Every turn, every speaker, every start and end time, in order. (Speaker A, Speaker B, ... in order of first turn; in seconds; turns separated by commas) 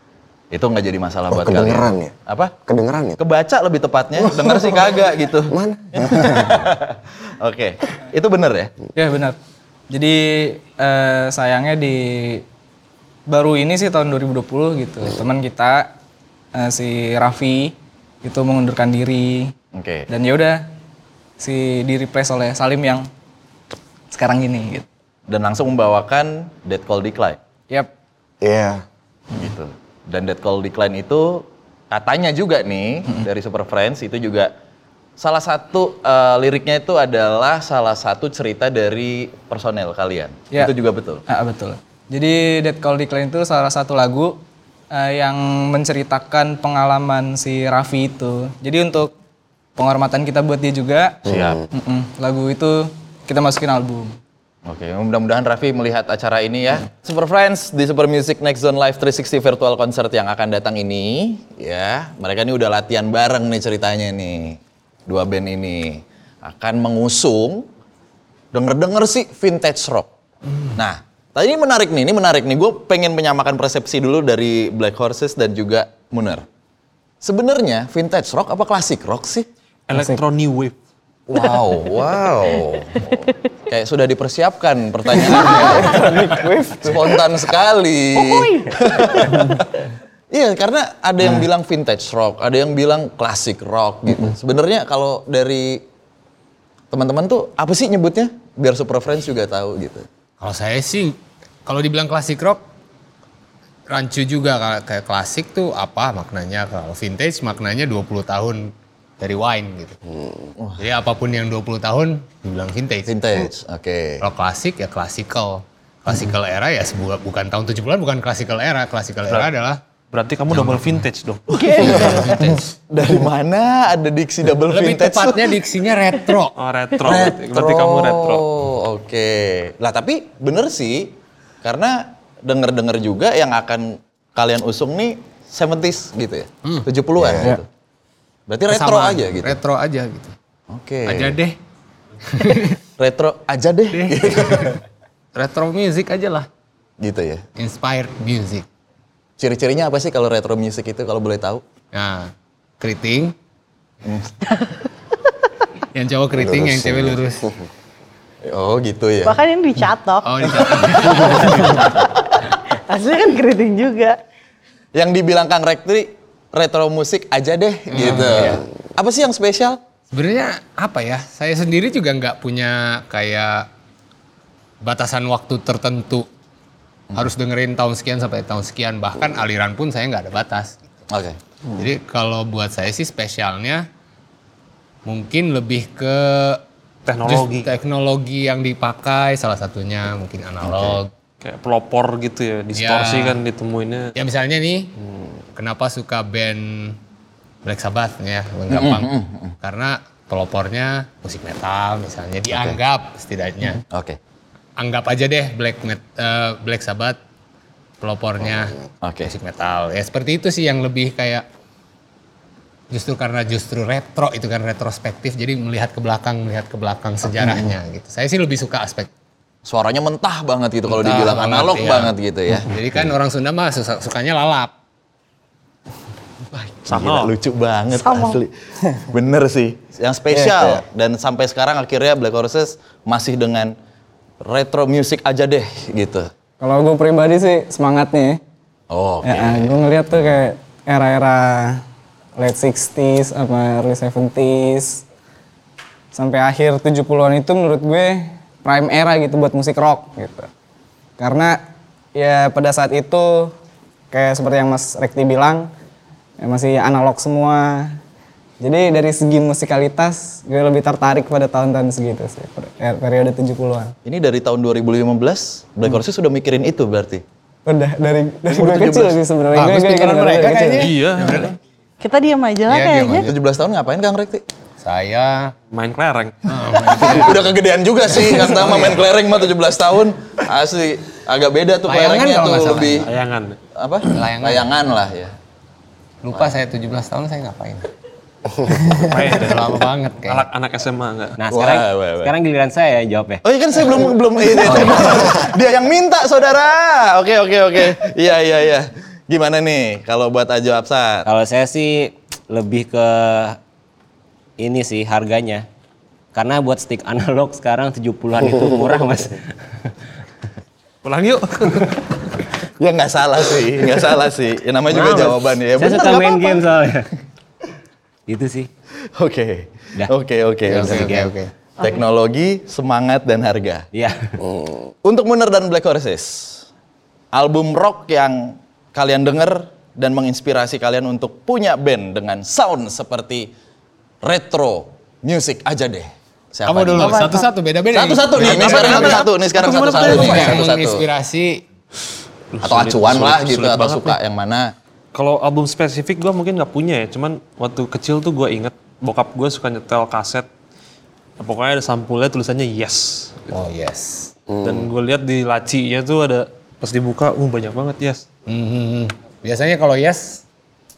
Speaker A: 0.5-2.5, Speaker B: 1.3-2.1, Speaker B: 2.6-3.2, Speaker A: 3.2-8.7, Speaker B: 4.2-4.8, Speaker B: 5.5-6.7, Speaker C: 8.9-9.4, Speaker C: 9.9-12.4, Speaker C: 13.3-15.9, Speaker C: 16.5-19.5, Speaker A: 19.7-20.1, Speaker C: 20.1-20.6, Speaker C: 21.4-23.1, Speaker C: 24.1-24.9, Speaker A: 25.3-27.4, Speaker B: 28.4-28.8, Speaker A: 29.3-34.5, Speaker A: 35.2-41.2, Speaker C: 41.3-44.4, Speaker C: 44.9-49.1, Speaker C: 49.8-54.2, Speaker B: 51.3-51.6, Speaker A: 54.6-67.7, Speaker A: 68.5-70.1, Speaker A: 70.8-76.4, Speaker A: 77.2-79.5, Speaker D: 79.9-80.8, Speaker C: 79.9-80.2, Speaker A: 81.3-86.2, Speaker C: 85.1-87.2, Speaker A: 86.8-89.7, Speaker E: 88.1-89.3, Speaker C: 89.2-89.6, Speaker A: 90.3-95.8, Speaker A: 96.9-100.0, Speaker F: 100.4-102.6, Speaker F: 103.9-110.0, Speaker A: 110.6-110.9, Speaker F: 110.8-113.5, Speaker A: 113.1-114.2, Speaker F: 114.2-119.8, Speaker D: 120.1-121.7, Speaker F: 120.5-121.0, Speaker E: 121.5-122.6, Speaker A: 121.6-125.6, Speaker F: 121.9-122.6, Speaker F: 124.7-126.5, Speaker D: 126.5-128.4, Speaker A: 127.0-137.6, Speaker B: 137.2-137.6, Speaker A: 138.5-139.6, Speaker F: 138.7-140.3, Speaker A: 140.7-141.4, Speaker F: 141.1-141.6, Speaker F: 142.3-142.8, Speaker A: 143.0-144.8, Speaker F: 143.9-144.8, Speaker F: 145.3-146.5, Speaker A: 147.0-147.4, Speaker F: 147.6-148.7, Speaker A: 149.4-151.6, Speaker F: 151.9-153.3, Speaker A: 154.0-154.4, Speaker F: 155.9-157.5, Speaker B: 156.3-157.5, Speaker A: 158.4-159.4, Speaker E: 159.2-164.2, Speaker F: 160.2-161.9, Speaker A: 160.9-161.9, Speaker A: 164.9-169.8, Speaker F: 167.9-168.6, Speaker F: 170.1-173.7, Speaker F: 174.8-176.3, Speaker F: 177.1-180.8, Speaker A: 181.1-181.4, Speaker F: 181.8-183.9, Speaker F: 185.0-186.6, Speaker D: 187.1-187.7, Speaker F: 187.2-191.1, Speaker A: 190.6-191.0, Speaker D: 191.4-194.1, Speaker F: 192.8-193.4, Speaker F: 194.1-194.9, Speaker F: 195.6-197.0, Speaker F: 197.6-199.1, Speaker A: 198.7-199.6, Speaker F: 199.6-203.8, Speaker A: 202.5-202.8, Speaker A: 203.9-204.2, Speaker F: 204.8-207.2, Speaker F: 208.0-211.4, Speaker B: 208.4-208.8, Speaker A: 209.0-209.3, Speaker F: 212.9-219.1, Speaker A: 219.6-223.1, Speaker F: 220.9-224.7, Speaker A: 226.5-233.8, Speaker D: 226.9-227.3, Speaker E: 227.9-228.4, Speaker C: 230.3-230.8, Speaker A: 234.4-236.3, Speaker C: 236.6-238.4, Speaker A: 238.9-239.8, Speaker C: 239.2-241.8, Speaker C: 242.4-245.0, Speaker C: 246.1-250.5, Speaker C: 251.2-251.6, Speaker C: 252.1-253.5, Speaker C: 254.1-255.7, Speaker C: 256.4-258.0, Speaker C: 258.6-263.9, Speaker A: 264.0-267.2, Speaker C: 267.6-270.9, Speaker A: 268.5-269.2, Speaker F: 269.5-271.5, Speaker D: 270.8-271.5, Speaker E: 272.0-273.3, Speaker F: 272.7-273.3, Speaker A: 273.2-274.4, Speaker F: 274.8-275.5, Speaker D: 275.7-276.5, Speaker F: 276.4-277.5, Speaker A: 276.9-283.1, Speaker F: 278.1-278.9, Speaker F: 281.9-283.1, Speaker D: 283.0-283.6, Speaker A: 283.8-285.3, Speaker F: 284.1-284.7, Speaker F: 286.2-287.9, Speaker F: 288.7-290.5, Speaker D: 289.0-291.4, Speaker G: 291.4-293.4, Speaker A: 291.5-292.4, Speaker A: 293.4-301.3, Speaker G: 294.7-295.3, Speaker G: 301.2-303.6, Speaker G: 304.6-305.6, Speaker G: 306.3-309.4, Speaker D: 311.0-312.2, Speaker A: 312.8-316.7, Speaker G: 314.9-317.1, Speaker G: 318.3-318.7, Speaker A: 319.1-323.9, Speaker F: 320.7-321.5, Speaker G: 320.8-321.3, Speaker G: 323.9-324.4, Speaker B: 324.4-324.8, Speaker A: 325.0-326.6, Speaker A: 327.3-333.5, Speaker A: 334.2-337.3, Speaker F: 336.7-341.6, Speaker E: 336.9-337.5, Speaker A: 337.9-341.0, Speaker D: 338.4-340.6, Speaker D: 342.5-344.2, Speaker A: 342.6-344.8, Speaker D: 345.1-350.5, Speaker D: 351.4-353.5, Speaker F: 353.5-354.3, Speaker B: 354.5-354.9, Speaker D: 354.6-358.2, Speaker F: 358.5-360.4